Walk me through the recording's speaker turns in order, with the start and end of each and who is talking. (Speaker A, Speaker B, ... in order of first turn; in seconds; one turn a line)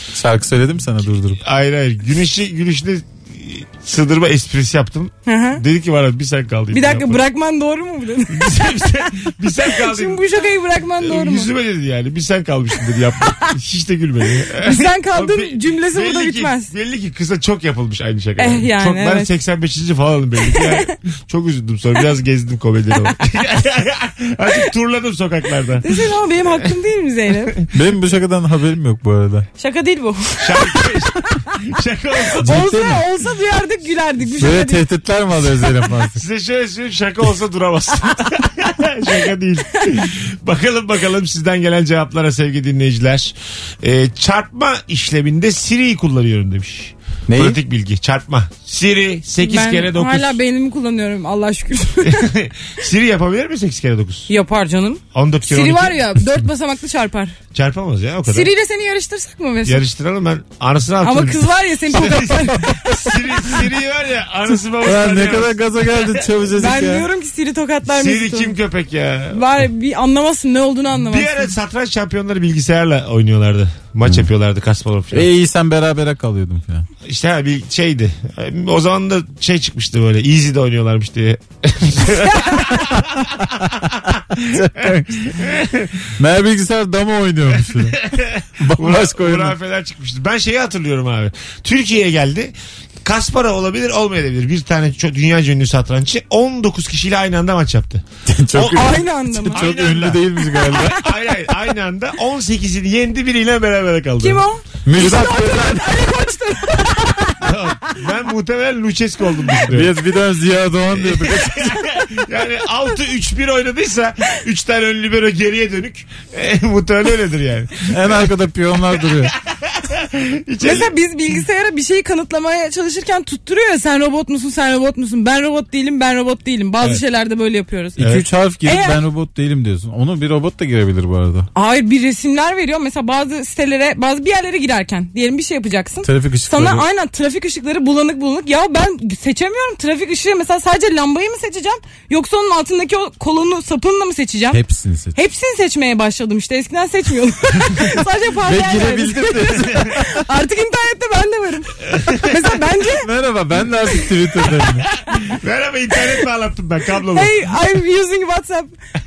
Speaker A: 0.1-1.4
Speaker B: 1.4-7.2
Speaker C: 5.2-5.6
Speaker C: 6.7-9.1
Speaker B: 8.3-10.4
Speaker C: 9.6-11.5
Speaker B: 11.0-26.7
Speaker C: 13.3-13.5
Speaker C: 14.4-16.7
Speaker C: 18.4-19.3
Speaker C: 20.4-20.9
Speaker C: 25.8-27.6
Speaker A: 27.7-29.5
Speaker C: 29.6-31.5
Speaker B: 30.4-32.7
Speaker C: 32.4-34.8
Speaker A: 32.4-33.0
Speaker A: 34.3-36.2
Speaker B: 36.1-50.4
Speaker A: 47.3-47.6
Speaker C: 49.4-52.3
Speaker B: 52.0-54.3
Speaker C: 54.3-57.4
Speaker B: 55.1-56.2
Speaker B: 57.5-58.5
Speaker C: 58.3-59.8
Speaker B: 59.6-66.3
Speaker C: 61.0-62.8
Speaker A: 64.8-67.1
Speaker C: 66.5-68.6
Speaker B: 67.8-69.5
Speaker C: 69.3-71.5
Speaker B: 70.9-75.3
Speaker A: 75.1-76.9
Speaker B: 77.0-86.1
Speaker C: 82.2-82.8
Speaker A: 84.4-85.4
Speaker A: 86.2-88.1
Speaker B: 87.5-98.8
Speaker A: 88.6-89.5
Speaker A: 98.3-101.0
Speaker C: 98.6-99.6
Speaker B: 99.5-104.4
Speaker C: 104.2-108.0
Speaker A: 104.8-106.1
Speaker B: 107.4-110.0
Speaker A: 109.7-111.7
Speaker B: 110.9-118.2
Speaker A: 117.9-119.3
Speaker B: 119.2-120.9
Speaker C: 120.6-128.0
Speaker A: 128.0-131.5
Speaker B: 128.0-128.3
Speaker C: 128.6-129.0
Speaker C: 131.5-144.6
Speaker A: 136.0-136.8
Speaker A: 144.5-145.1
Speaker C: 145.1-153.1
Speaker A: 148.4-150.2
Speaker B: 151.9-152.2
Speaker A: 152.8-154.9
Speaker B: 155.1-157.3
Speaker C: 157.1-158.7